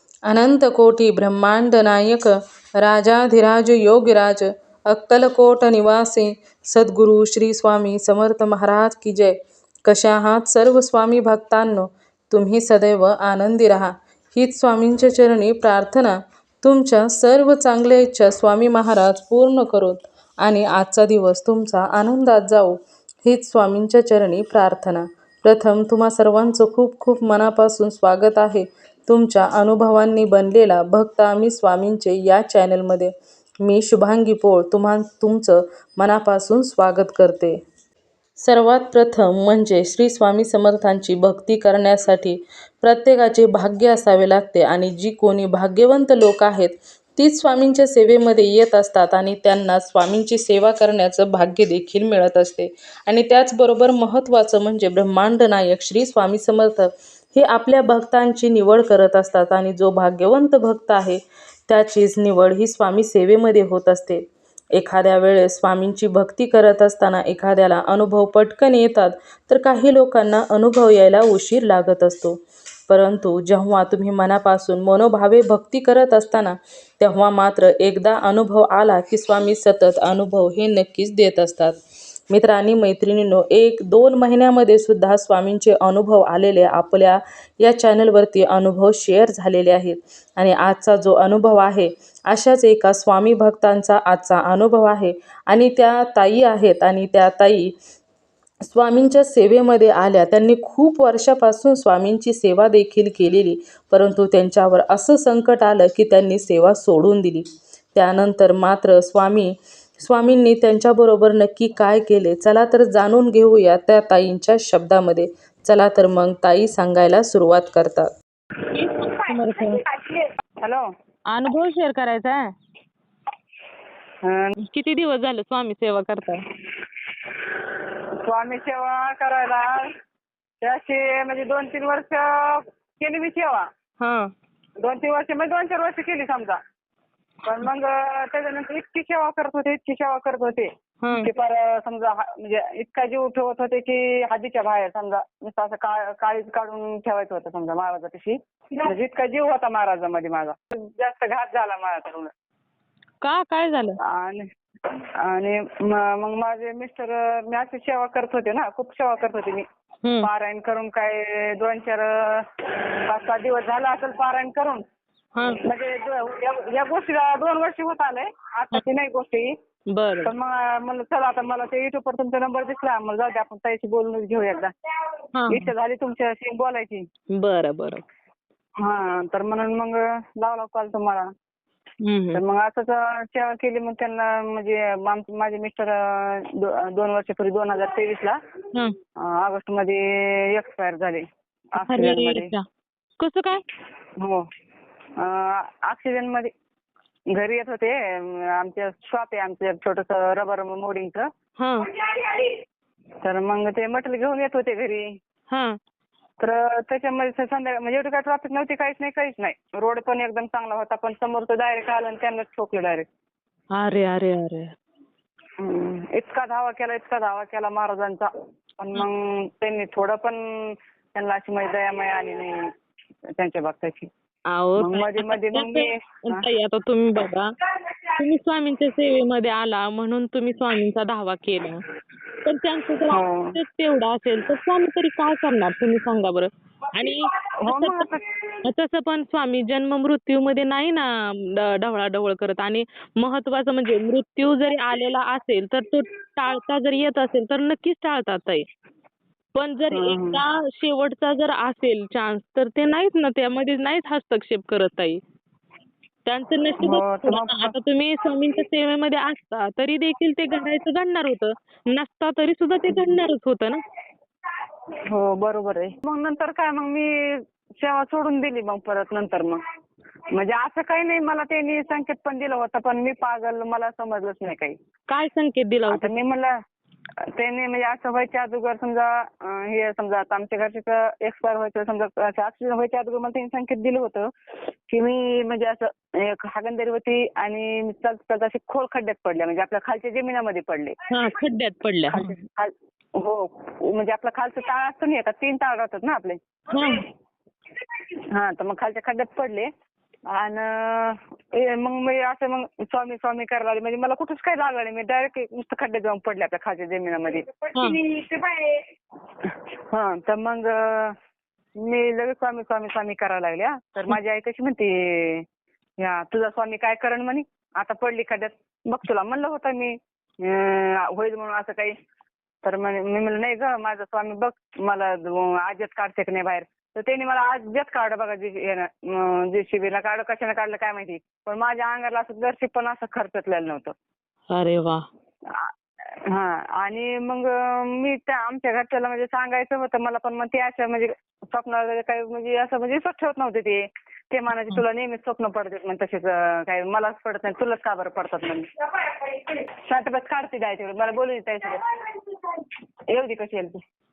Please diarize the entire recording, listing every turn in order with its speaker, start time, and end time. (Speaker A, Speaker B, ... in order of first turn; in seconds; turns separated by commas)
Speaker A: 0.2-37.6, Speaker A: 38.4-81.8, Speaker A: 82.3-97.7, Speaker A: 98.6-118.1, Speaker B: 118.7-119.9, Speaker C: 120.1-120.9, Speaker B: 121.3-122.5, Speaker C: 124.2-124.5, Speaker B: 124.6-126.5, Speaker C: 128.0-130.0, Speaker C: 130.6-133.7, Speaker B: 134.0-134.3, Speaker C: 134.8-136.6, Speaker C: 137.4-152.3, Speaker B: 141.0-141.3, Speaker B: 153.2-154.0, Speaker C: 154.0-159.7, Speaker B: 160.0-160.3, Speaker C: 160.2-164.8, Speaker B: 165.3-165.6, Speaker C: 165.6-169.6, Speaker B: 169.9-170.3, Speaker C: 170.2-174.7, Speaker B: 175.3-175.7, Speaker C: 175.5-177.1, Speaker B: 177.3-178.0, Speaker C: 178.8-181.3, Speaker B: 182.0-182.4, Speaker C: 182.3-188.4, Speaker C: 189.2-192.5, Speaker B: 191.8-192.7, Speaker B: 193.2-193.6, Speaker C: 194.2-194.5, Speaker C: 195.2-196.5, Speaker C: 197.3-201.3, Speaker B: 201.6-201.9, Speaker C: 202.0-202.6, Speaker C: 203.2-205.2, Speaker B: 205.5-205.8, Speaker C: 206.4-213.1, Speaker B: 213.7-214.7, Speaker C: 215.6-222.7, Speaker C: 223.2-224.1, Speaker B: 224.5-227.6, Speaker C: 224.8-226.5, Speaker B: 228.1-231.8, Speaker B: 232.4-238.1, Speaker C: 233.1-233.6, Speaker C: 237.6-238.5, Speaker B: 238.6-248.7, Speaker B: 249.5-255.2, Speaker C: 249.9-250.4, Speaker B: 256.2-263.8, Speaker C: 256.8-257.7, Speaker C: 265.1-269.6, Speaker C: 270.3-274.8, Speaker B: 275.1-276.1, Speaker C: 275.9-276.6, Speaker C: 277.2-284.3, Speaker C: 284.9-291.1, Speaker B: 291.1-292.4, Speaker C: 292.1-296.4, Speaker B: 296.7-297.1, Speaker C: 298.1-299.7, Speaker C: 300.3-308.8, Speaker B: 307.7-308.0, Speaker C: 309.4-311.2, Speaker C: 311.8-315.4, Speaker C: 316.0-322.0, Speaker C: 322.6-333.9, Speaker B: 334.5-335.0, Speaker C: 335.4-335.7, Speaker C: 336.2-351.9, Speaker C: 353.1-353.8